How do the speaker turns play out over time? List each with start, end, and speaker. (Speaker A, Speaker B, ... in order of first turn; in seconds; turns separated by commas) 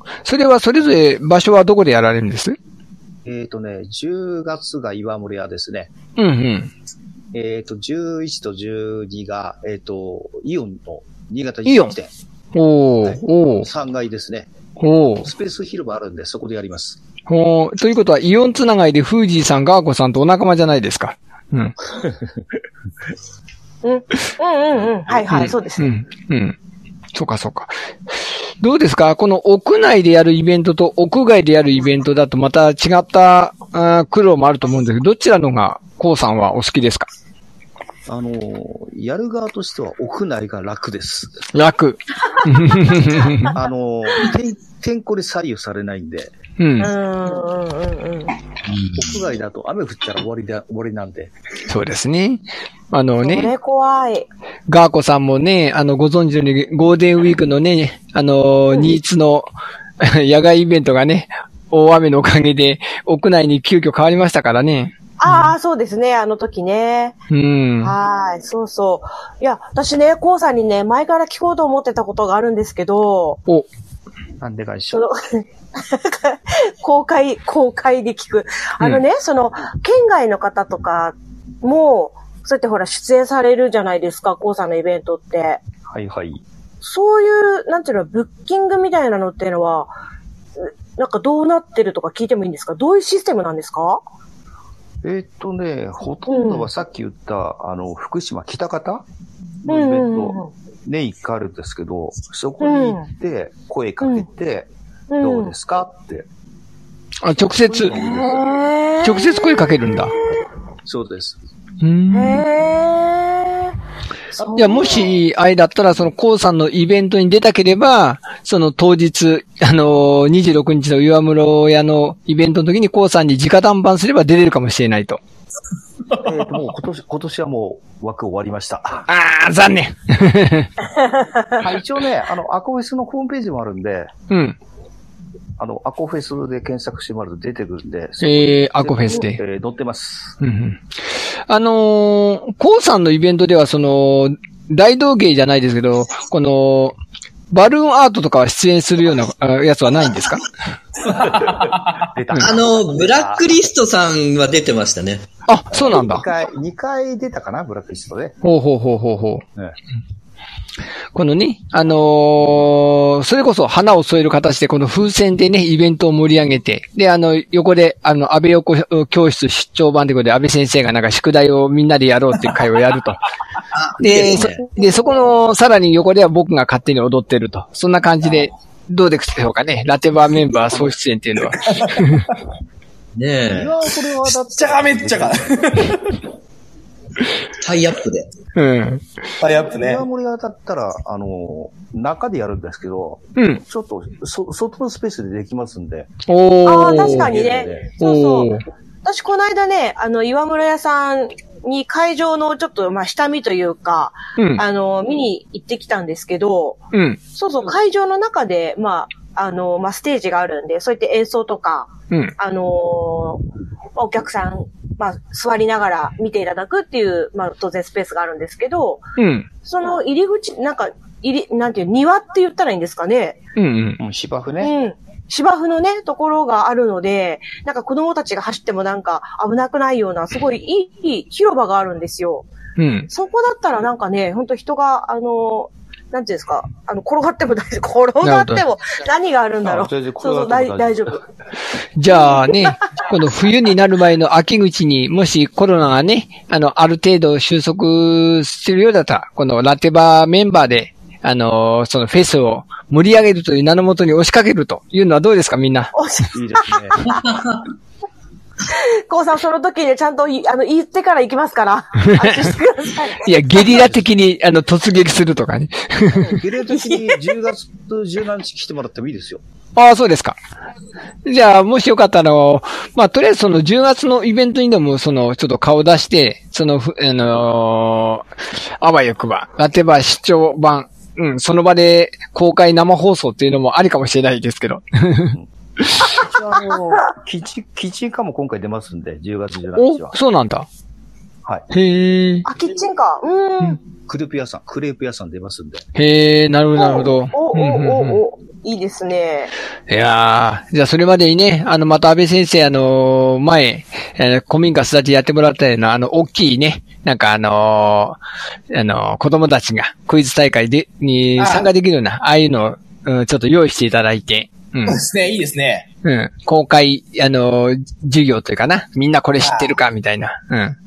Speaker A: 0.2-2.5, Speaker B: 3.2-5.9, Speaker A: 6.2-6.7, Speaker B: 7.3-12.1, Speaker A: 11.7-11.9, Speaker A: 12.5-13.7, Speaker B: 13.0-14.5, Speaker A: 14.8-15.3, Speaker B: 15.2-17.0, Speaker A: 17.3-21.7, Speaker C: 23.8-25.9, Speaker A: 25.3-26.6, Speaker A: 27.1-27.7, Speaker A: 28.6-37.1, Speaker B: 38.1-41.4, Speaker A: 41.5-43.5, Speaker B: 43.5-46.3, Speaker A: 46.6-46.9, Speaker C: 46.8-48.3, Speaker D: 48.7-49.0, Speaker B: 48.9-51.3, Speaker A: 51.7-53.5, Speaker C: 53.2-54.3, Speaker A: 54.7-59.5, Speaker A: 60.0-65.5, Speaker C: 65.2-67.2, Speaker A: 67.3-67.9, Speaker C: 67.8-73.4, Speaker B: 74.4-75.1, Speaker C: 74.9-85.6, Speaker B: 85.9-86.4, Speaker C: 86.8-89.9, Speaker C: 90.6-94.0, Speaker B: 95.0-99.0, Speaker C: 96.3-96.7, Speaker B: 99.6-106.3, Speaker C: 99.7-100.5, Speaker C: 102.6-103.1, Speaker C: 104.0-104.2, Speaker C: 105.1-105.5, Speaker A: 107.2-108.0, Speaker B: 107.7-108.4, Speaker C: 107.9-109.8, Speaker A: 109.0-110.1, Speaker B: 110.8-111.4, Speaker A: 111.8-112.4, Speaker C: 112.1-113.7, Speaker C: 114.4-115.1, Speaker B: 114.4-114.9, Speaker A: 114.5-125.2, Speaker B: 126.1-129.1, Speaker A: 129.1-130.7, Speaker B: 131.6-134.1, Speaker A: 134.3-134.6, Speaker B: 135.6-140.4, Speaker A: 138.2-139.4, Speaker A: 140.4-140.8, Speaker A: 141.5-146.9, Speaker A: 147.5-150.4, Speaker B: 151.0-153.7, Speaker D: 152.4-155.2, Speaker A: 155.5-156.2, Speaker B: 155.7-158.4, Speaker A: 158.4-159.4, Speaker A: 161.1-173.2, Speaker D: 173.8-174.6, Speaker A: 174.0-182.3, Speaker B: 180.7-180.9, Speaker E: 181.6-182.2, Speaker D: 183.2-183.7, Speaker B: 183.5-185.9, Speaker E: 184.5-186.2, Speaker D: 187.6-188.3, Speaker A: 188.6-189.0, Speaker E: 189.4-190.0, Speaker B: 189.6-196.1, Speaker A: 193.3-193.6, Speaker A: 196.3-197.3, Speaker C: 196.6-198.5, Speaker B: 197.0-197.9, Speaker A: 198.0-198.6, Speaker C: 199.0-206.8, Speaker A: 204.4-204.6, Speaker A: 206.9-207.2, Speaker C: 207.3-213.4, Speaker C: 213.9-219.0, Speaker A: 219.2-219.5, Speaker C: 219.6-223.4, Speaker A: 223.6-224.0, Speaker B: 224.0-224.7, Speaker C: 224.6-232.5, Speaker A: 232.8-233.1, Speaker C: 233.1-241.2, Speaker A: 238.2-238.6, Speaker B: 239.6-241.2, Speaker A: 242.0-255.9, Speaker C: 242.1-242.7, Speaker C: 255.9-257.2, Speaker B: 256.3-257.1, Speaker D: 257.2-257.5, Speaker C: 258.7-263.7, Speaker A: 262.0-262.5, Speaker A: 263.2-266.4, Speaker B: 266.3-269.4, Speaker C: 266.7-267.2, Speaker A: 269.8-270.4, Speaker A: 271.2-278.3, Speaker A: 278.8-285.3, Speaker A: 285.8-286.2, Speaker B: 286.1-290.1, Speaker A: 289.8-290.7, Speaker A: 291.7-292.4, Speaker C: 292.4-293.8, Speaker B: 294.0-295.9, Speaker A: 295.9-298.2, Speaker C: 296.7-299.5, Speaker A: 299.9-308.2, Speaker A: 308.7-315.0, Speaker E: 311.4-311.7, Speaker E: 314.9-315.9, Speaker A: 316.0-320.8, Speaker E: 319.4-319.7